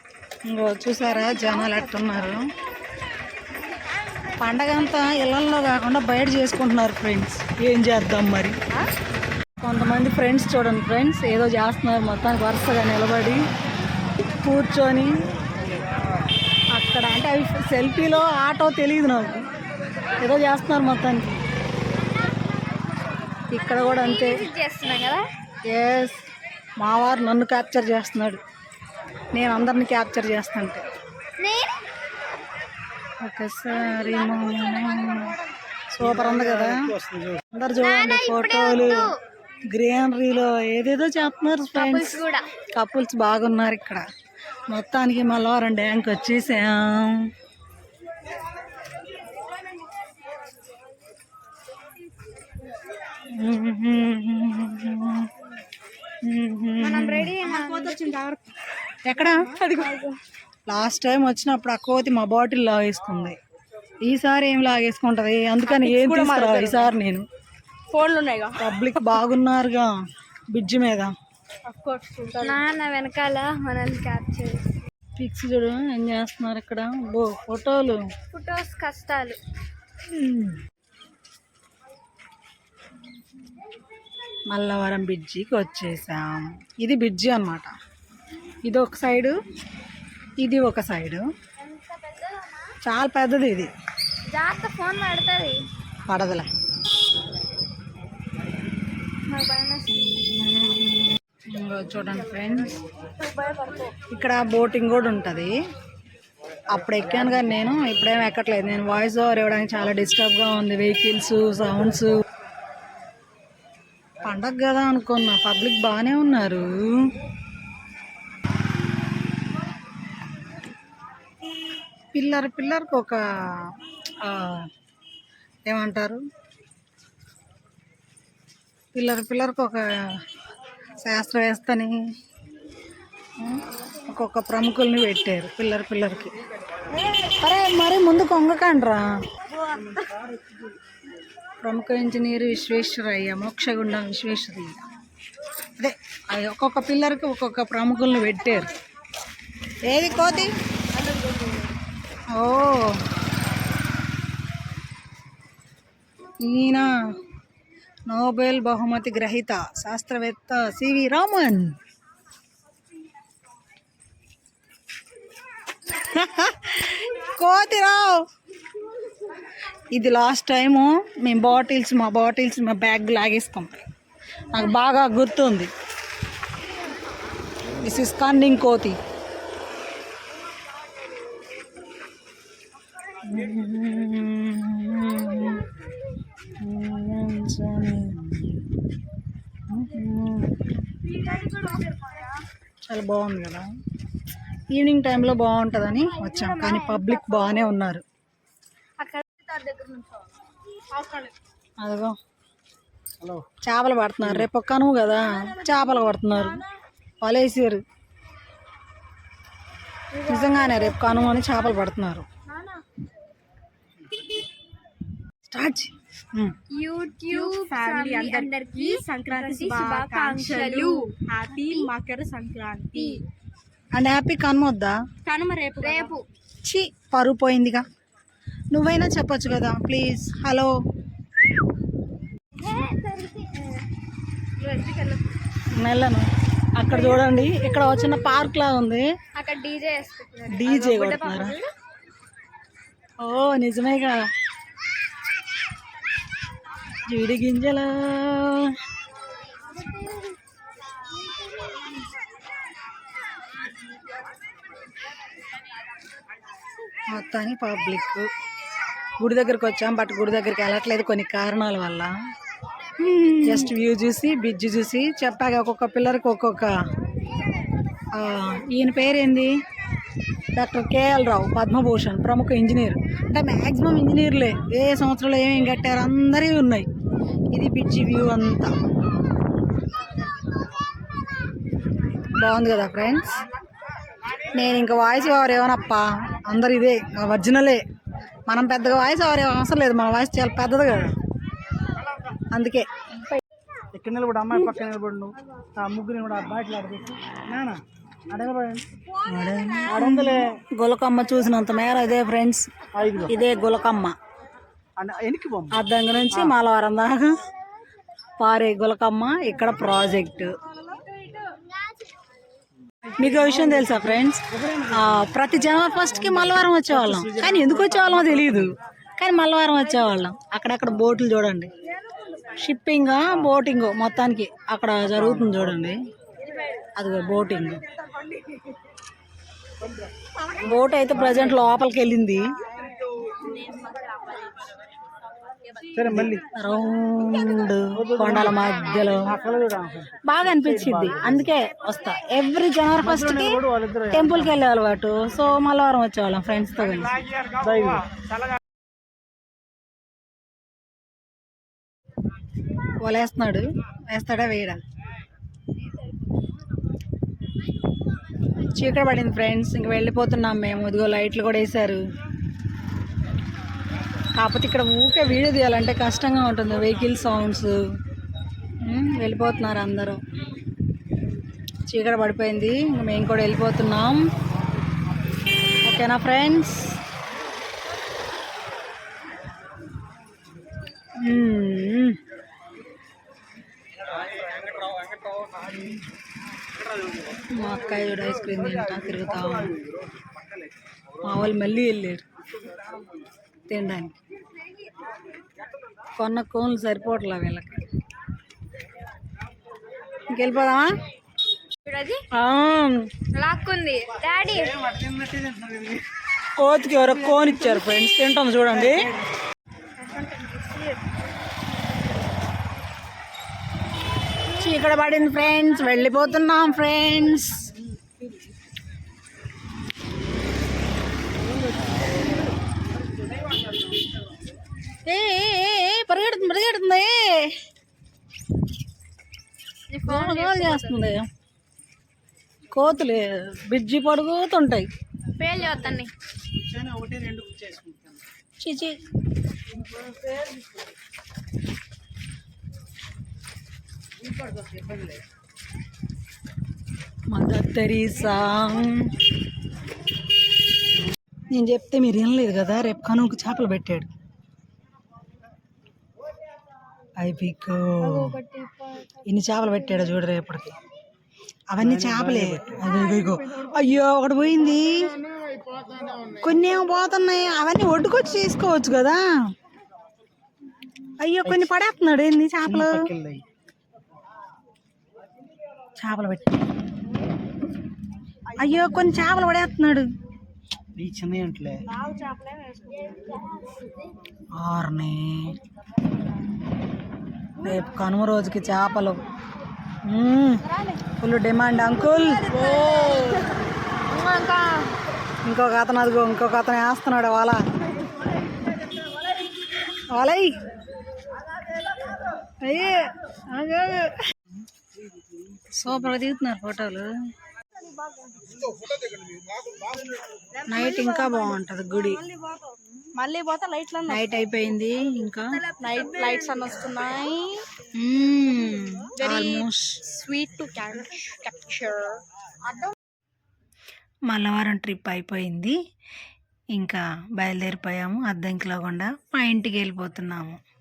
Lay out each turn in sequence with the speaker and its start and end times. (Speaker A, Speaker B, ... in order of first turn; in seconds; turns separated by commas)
Speaker A: 0.5-2.5, Speaker B: 1.2-1.7, Speaker A: 4.4-8.6, Speaker A: 9.6-13.4, Speaker A: 14.4-15.1, Speaker A: 16.7-19.5, Speaker A: 20.2-21.4, Speaker A: 23.5-24.5, Speaker C: 23.6-25.2, Speaker A: 25.7-26.2, Speaker A: 26.8-28.4, Speaker A: 29.3-30.8, Speaker C: 31.4-31.8, Speaker A: 33.2-35.4, Speaker C: 33.9-35.2, Speaker A: 35.9-39.1, Speaker C: 37.8-39.2, Speaker A: 39.7-44.0, Speaker C: 41.7-42.5, Speaker A: 44.7-47.3, Speaker A: 53.4-55.3, Speaker A: 56.2-57.4, Speaker C: 56.8-58.1, Speaker B: 57.4-58.4, Speaker A: 59.0-59.5, Speaker B: 59.4-60.0, Speaker C: 59.6-60.2, Speaker A: 60.7-63.4, Speaker A: 64.0-67.2, Speaker B: 65.7-66.9, Speaker B: 67.9-68.6, Speaker A: 68.6-69.9, Speaker A: 70.5-71.1, Speaker B: 71.7-72.6, Speaker C: 72.3-74.6, Speaker A: 75.2-78.0, Speaker C: 78.3-79.4, Speaker A: 80.1-80.6, Speaker A: 84.5-87.7, Speaker A: 88.7-89.3, Speaker A: 90.4-91.2, Speaker C: 91.7-92.4, Speaker A: 92.8-93.7, Speaker C: 94.3-95.6, Speaker A: 96.1-96.5, Speaker C: 99.3-100.2, Speaker A: 99.9-102.7, Speaker A: 104.1-105.5, Speaker A: 106.7-112.2, Speaker A: 114.2-116.9, Speaker A: 122.1-124.7, Speaker A: 125.7-126.2, Speaker A: 128.9-130.2, Speaker A: 131.0-132.0, Speaker A: 133.4-136.3, Speaker A: 137.0-139.1, Speaker A: 141.6-144.8, Speaker A: 145.8-148.7, Speaker A: 149.8-150.5, Speaker A: 152.3-152.9, Speaker A: 156.4-156.9, Speaker A: 158.1-161.8, Speaker A: 165.9-168.2, Speaker A: 169.9-173.9, Speaker A: 174.5-175.7, Speaker A: 177.8-179.0, Speaker A: 183.2-185.7, Speaker A: 186.6-188.7, Speaker A: 189.7-190.7, Speaker C: 191.3-191.9, Speaker A: 192.9-193.7, Speaker A: 194.7-198.0, Speaker C: 196.1-197.6, Speaker C: 199.0-200.0, Speaker B: 201.0-201.3, Speaker A: 201.8-202.2, Speaker A: 203.6-206.6, Speaker A: 207.2-207.8, Speaker C: 210.1-211.6, Speaker A: 210.2-212.3, Speaker A: 215.5-216.6, Speaker C: 216.7-221.9, Speaker B: 217.3-223.3, Speaker C: 222.9-223.2, Speaker A: 223.9-225.0, Speaker B: 225.2-226.2, Speaker C: 225.8-226.2, Speaker A: 226.6-227.8, Speaker A: 228.7-230.7, Speaker C: 232.6-233.8, Speaker C: 234.6-235.2, Speaker A: 235.8-236.3, Speaker A: 236.8-239.1, Speaker C: 237.1-238.2, Speaker C: 239.4-241.7, Speaker A: 240.5-241.6, Speaker A: 243.2-244.2, Speaker A: 247.1-248.7, Speaker A: 257.1-258.3, Speaker A: 259.2-262.1, Speaker A: 263.0-266.7, Speaker A: 268.1-269.5, Speaker A: 270.6-276.9, Speaker A: 277.5-278.7, Speaker A: 282.4-283.3, Speaker A: 284.5-287.8, Speaker A: 288.5-291.1, Speaker A: 292.5-292.8, Speaker D: 293.9-298.8, Speaker A: 299.2-302.7, Speaker D: 299.9-300.4, Speaker D: 303.0-303.3, Speaker A: 303.3-304.1, Speaker D: 305.0-305.7, Speaker A: 305.7-307.4, Speaker A: 308.4-310.5, Speaker A: 313.2-321.7, Speaker D: 316.9-318.7, Speaker A: 322.5-326.0, Speaker A: 327.0-327.8, Speaker A: 330.6-332.5, Speaker D: 336.0-336.4, Speaker A: 336.1-339.4, Speaker D: 338.1-338.6, Speaker D: 339.5-340.1, Speaker A: 340.2-347.2, Speaker D: 340.7-341.1, Speaker D: 343.0-344.2, Speaker D: 347.6-348.0, Speaker A: 353.0-354.8, Speaker A: 358.8-362.0, Speaker A: 364.4-367.8, Speaker A: 368.9-370.2, Speaker A: 371.9-374.2, Speaker A: 375.9-377.0, Speaker A: 381.2-382.2, Speaker A: 387.5-389.7, Speaker A: 391.2-392.2, Speaker A: 393.7-394.2, Speaker A: 396.2-397.8, Speaker A: 400.3-400.9, Speaker C: 401.9-402.2, Speaker A: 402.3-403.0, Speaker C: 403.3-404.8, Speaker D: 404.8-406.0, Speaker A: 406.6-409.1, Speaker B: 410.1-410.9, Speaker A: 414.5-417.7, Speaker A: 425.1-427.5, Speaker C: 429.9-431.1, Speaker A: 430.1-431.2, Speaker A: 432.7-434.9, Speaker C: 435.4-436.1, Speaker D: 436.6-438.2, Speaker A: 438.6-439.0, Speaker A: 447.3-449.1, Speaker A: 451.5-454.1, Speaker A: 457.2-458.4, Speaker C: 458.1-459.1, Speaker A: 459.3-460.7, Speaker A: 461.7-465.1, Speaker D: 461.8-462.8, Speaker A: 466.4-469.2, Speaker A: 471.2-473.1, Speaker D: 472.7-473.4, Speaker A: 476.0-476.6, Speaker A: 478.6-480.1, Speaker D: 481.0-481.8, Speaker B: 481.9-483.0, Speaker A: 484.6-485.6, Speaker A: 487.6-489.2, Speaker A: 490.1-490.6, Speaker B: 490.7-491.0, Speaker A: 491.2-492.6, Speaker B: 492.5-493.5, Speaker B: 494.2-494.5, Speaker C: 494.3-494.6, Speaker A: 495.4-497.6, Speaker A: 500.1-500.5, Speaker A: 502.6-504.1, Speaker A: 505.8-507.1, Speaker B: 510.6-514.3, Speaker A: 510.7-512.2, Speaker A: 514.1-515.6, Speaker B: 515.8-517.7, Speaker A: 517.9-520.0, Speaker B: 519.2-522.2, Speaker A: 524.3-525.8, Speaker A: 526.7-530.6